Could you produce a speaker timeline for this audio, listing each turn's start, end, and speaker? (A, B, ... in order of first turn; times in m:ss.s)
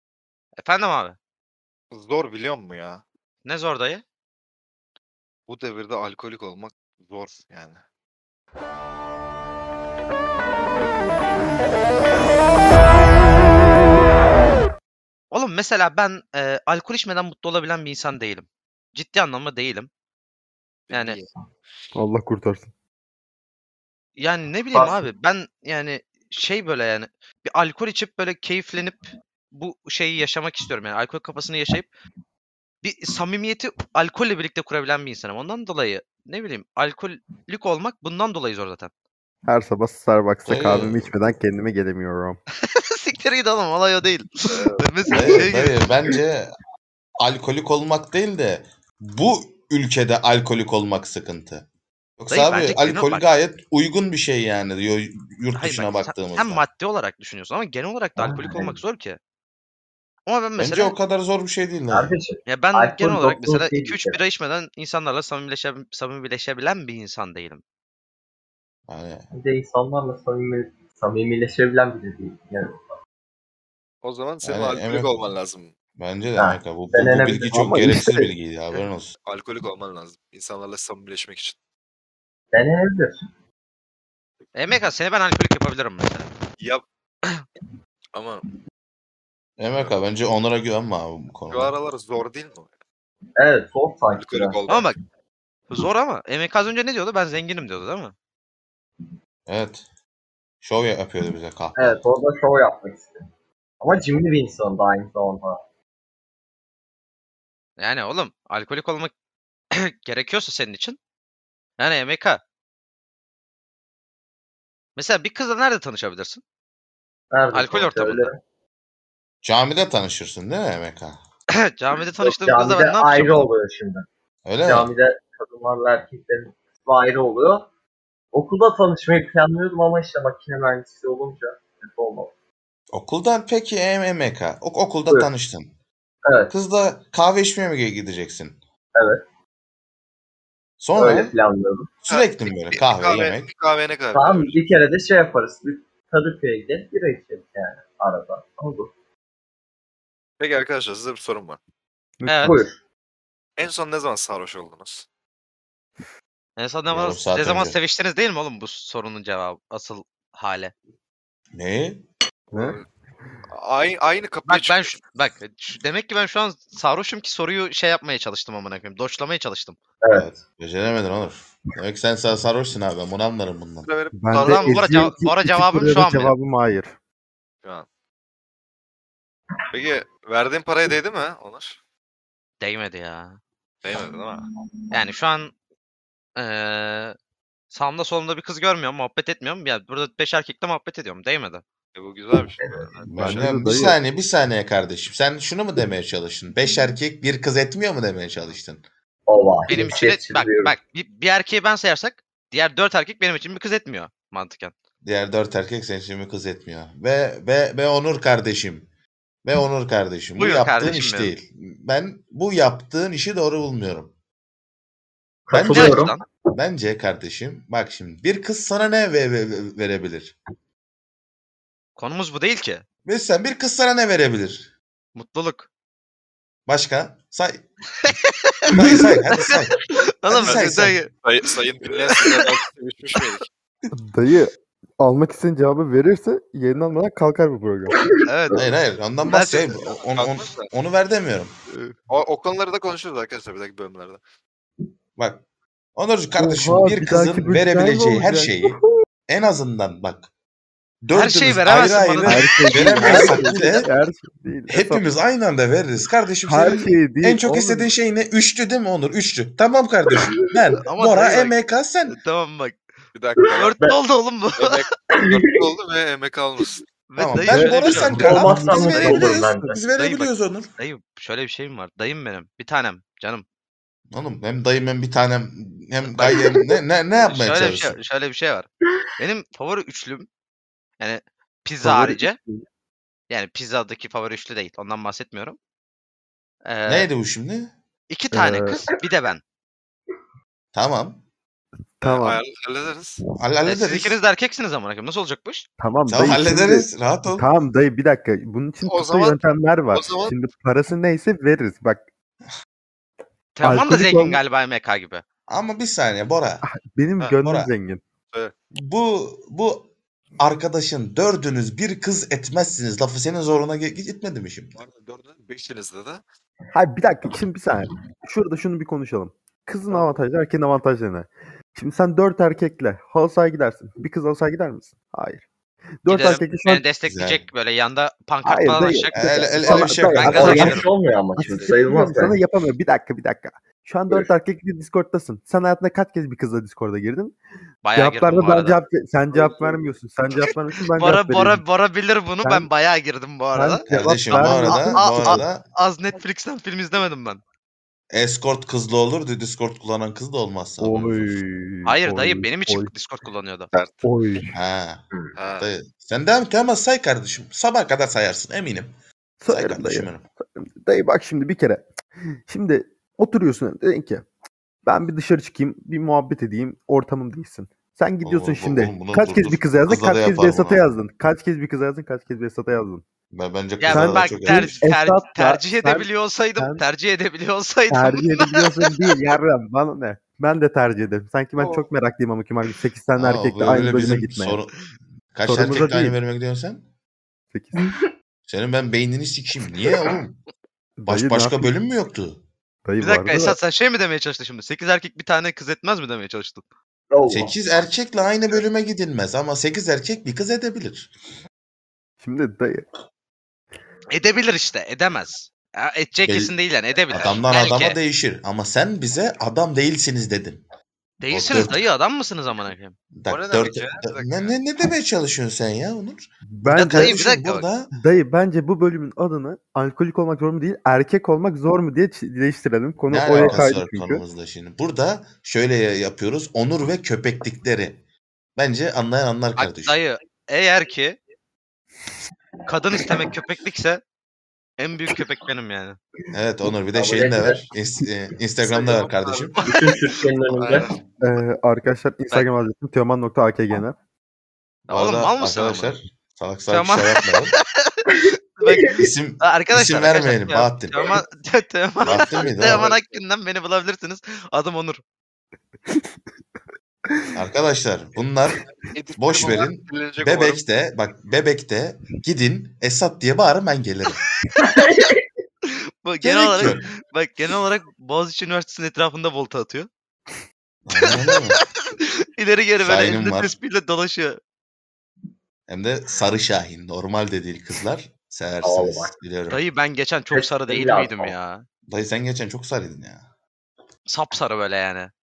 0:00.6-0:01.2 A
0:01.9-0:03.0 B
0:03.4-0:04.0 A
0:05.5-0:07.8 B
0:15.3-0:19.9 A
0:20.9-0:21.3 B
0:20.9-0:21.2 A
0:21.9-0:22.7 C
0:24.2-0:31.9 A
0:24.7-0:25.1 D
0:32.8-0:38.9 A
0:39.4-0:42.4 C
0:40.4-0:41.1 E
0:42.7-0:45.8 A
0:45.1-0:46.5 E
0:47.2-0:51.6 E
0:52.2-0:56.6 E
0:52.3-0:53.3 A
0:55.5-0:59.2 A
0:58.2-0:58.8 D
1:00.2-1:00.9 A
1:00.6-1:02.1 E
1:01.9-1:04.2 D
1:02.4-1:07.6 A
1:08.9-1:09.2 E
1:09.3-1:12.9 D
1:14.0-1:15.7 B
1:14.4-1:15.2 E
1:16.0-1:19.1 E
1:16.4-1:17.8 D
1:17.5-1:18.3 C
1:19.2-1:21.6 B
1:22.5-1:23.2 D
1:24.5-1:26.3 A
1:26.6-1:26.8 B
1:28.1-1:28.4 B
1:29.6-1:31.8 E
1:31.5-1:32.7 B
1:33.4-1:34.6 D
1:34.1-1:34.9 B
1:34.7-1:35.0 A
1:35.7-1:38.1 A
1:39.5-1:39.8 E
1:40.6-1:42.0 E
1:41.8-1:43.2 D
1:43.8-1:45.6 D
1:47.8-1:49.1 A
1:49.9-1:51.0 A
1:51.8-1:52.4 A
1:55.0-1:56.4 A
1:57.3-1:58.4 D
1:57.5-1:58.3 A
1:59.4-2:01.2 E
2:01.7-2:03.5 A
2:02.2-2:04.0 D
2:04.4-2:04.9 E
2:04.6-2:07.7 D
2:08.3-2:12.3 D
2:12.9-2:15.7 E
2:16.2-2:16.5 D
2:16.5-2:18.6 E
2:18.9-2:19.2 D
2:20.8-2:21.3 E
2:21.0-2:21.9 D
2:22.0-2:23.5 E
2:22.0-2:24.6 B
2:24.1-2:28.9 D
2:30.4-2:31.6 B
2:32.2-2:32.7 C
2:32.2-2:32.6 A
2:32.4-2:32.7 D
2:33.6-2:35.0 B
2:36.6-2:40.7 A
2:36.9-2:37.8 E
2:41.5-2:42.0 E
2:42.5-2:42.8 B
2:42.5-2:42.8 C
2:43.5-2:45.0 B
2:44.5-2:49.8 A
2:50.0-2:50.3 D
2:50.1-2:53.9 E
2:53.8-2:55.0 B
2:54.1-2:56.9 C
2:54.4-2:56.3 A
2:59.7-3:01.8 B
3:02.6-3:03.4 A
3:03.8-3:04.4 B
3:04.9-3:05.5 A
3:06.4-3:07.1 A
3:07.7-3:11.6 A
3:11.9-3:13.8 B
3:12.6-3:12.9 D
3:13.0-3:18.8 E
3:13.1-3:13.9 C
3:19.3-3:20.7 D
3:19.7-3:24.7 A
3:25.0-3:28.8 E
3:29.4-3:34.1 E
3:30.4-3:31.3 A
3:35.5-3:36.2 D
3:35.5-3:36.0 E
3:35.7-3:36.2 A
3:36.5-3:40.4 E
3:42.0-3:42.8 A
3:43.0-3:44.7 E
3:45.1-3:45.7 A
3:46.7-3:47.6 E
3:48.0-3:48.7 A
3:48.7-3:51.0 E
3:50.2-3:51.1 A
3:50.4-3:53.5 B
3:53.9-3:58.0 C
3:58.2-3:58.6 A
3:58.5-4:01.5 E
3:59.3-3:59.7 A
4:00.1-4:00.7 B
4:02.1-4:04.2 B
4:05.2-4:05.4 E
4:06.0-4:08.7 E
4:06.4-4:08.8 C
4:09.3-4:10.3 E
4:11.0-4:13.9 E
4:11.1-4:12.7 A
4:12.2-4:15.1 C
4:13.0-4:13.5 D
4:14.7-4:22.2 E
4:16.4-4:17.9 C
4:20.8-4:22.8 A
4:23.1-4:23.7 B
4:23.5-4:24.0 D
4:23.5-4:24.7 A
4:24.6-4:26.8 B
4:25.1-4:25.5 D
4:27.1-4:28.2 A
4:27.2-4:30.7 E
4:27.5-4:28.8 C
4:27.9-4:29.8 D
4:28.7-4:29.3 A
4:29.9-4:33.4 A
4:34.1-4:38.0 E
4:37.2-4:40.3 A
4:41.0-4:42.4 A
4:41.8-4:42.6 C
4:43.3-4:45.6 A
4:46.6-4:47.1 A
4:46.8-4:47.7 E
4:48.1-4:49.4 A
4:48.3-4:48.8 C
4:50.7-4:51.2 E
4:52.0-4:52.4 C
4:52.0-4:53.2 B
4:53.4-4:54.2 E
4:53.6-4:55.6 A
4:55.8-5:02.0 C
4:56.1-4:57.4 E
4:58.8-4:59.4 B
4:59.9-5:00.3 B
5:03.6-5:05.2 A
5:03.6-5:04.4 C
5:05.5-5:06.6 E
5:06.6-5:08.0 C
5:07.4-5:07.7 E
5:08.8-5:14.8 E
5:14.8-5:16.2 B
5:16.7-5:25.4 C
5:26.0-5:26.9 C
5:26.1-5:30.9 A
5:27.0-5:27.4 E
5:28.4-5:30.8 C
5:29.1-5:30.8 E
5:29.7-5:32.4 D
5:31.4-5:41.6 C
5:37.8-5:38.8 A
5:39.3-5:39.8 D
5:41.0-5:43.9 A
5:42.4-5:42.7 C
5:43.5-5:45.5 C
5:43.9-5:45.6 E
5:44.5-5:47.4 A
5:48.1-5:51.4 E
5:50.8-5:52.9 C
5:51.8-5:53.7 A
5:53.7-5:54.0 B
5:54.0-5:54.5 C
5:54.5-5:58.9 E
5:55.4-5:55.7 B
5:59.4-6:01.8 C
5:59.5-6:00.2 E
6:02.5-6:04.2 C
6:04.8-6:13.0 C
6:08.2-6:10.8 E
6:13.3-6:14.8 E
6:13.8-6:19.1 A
6:13.9-6:16.8 C
6:17.9-6:24.6 C
6:21.6-6:21.9 B
6:23.2-6:26.8 E
6:25.4-6:26.2 C
6:27.5-6:27.9 C
6:28.5-6:30.4 E
6:31.0-6:31.7 C
6:31.1-6:32.4 E
6:32.8-6:33.6 C
6:33.0-6:36.6 A
6:37.1-6:37.8 D
6:37.3-6:41.1 E
6:42.2-6:42.8 C
6:44.1-6:48.0 A
6:46.2-6:46.5 E
6:47.1-6:50.6 E
6:51.2-6:52.9 A
6:51.3-6:51.8 E
6:53.2-6:57.9 E
6:53.3-6:54.5 B
6:56.5-6:57.2 C
6:56.7-6:57.7 A
6:57.9-7:04.2 C
7:03.1-7:08.0 E
7:08.6-7:10.0 E
7:09.6-7:11.2 A
7:12.7-7:14.0 A
7:14.8-7:16.0 A
7:16.3-7:19.6 E
7:16.9-7:17.6 D
7:18.6-7:19.6 B
7:19.6-7:20.9 D
7:20.5-7:21.0 B
7:21.2-7:24.0 C
7:24.9-7:25.9 A
7:24.9-7:27.5 E
7:26.7-7:27.3 A
7:28.0-7:35.0 A
7:28.9-7:31.1 E
7:32.0-7:32.9 E
7:32.6-7:33.2 B
7:37.4-7:38.6 E
7:38.9-7:40.6 B
7:39.2-7:44.2 E
7:44.6-7:45.2 D
7:46.0-7:49.9 A
7:46.2-7:46.8 E
7:50.8-7:51.6 E
7:52.4-7:54.4 A
7:52.8-7:53.5 E
7:55.7-7:59.6 E
7:58.6-7:59.1 D
7:59.5-8:01.6 A
8:00.3-8:01.4 D
8:01.9-8:03.2 E
8:04.0-8:05.1 A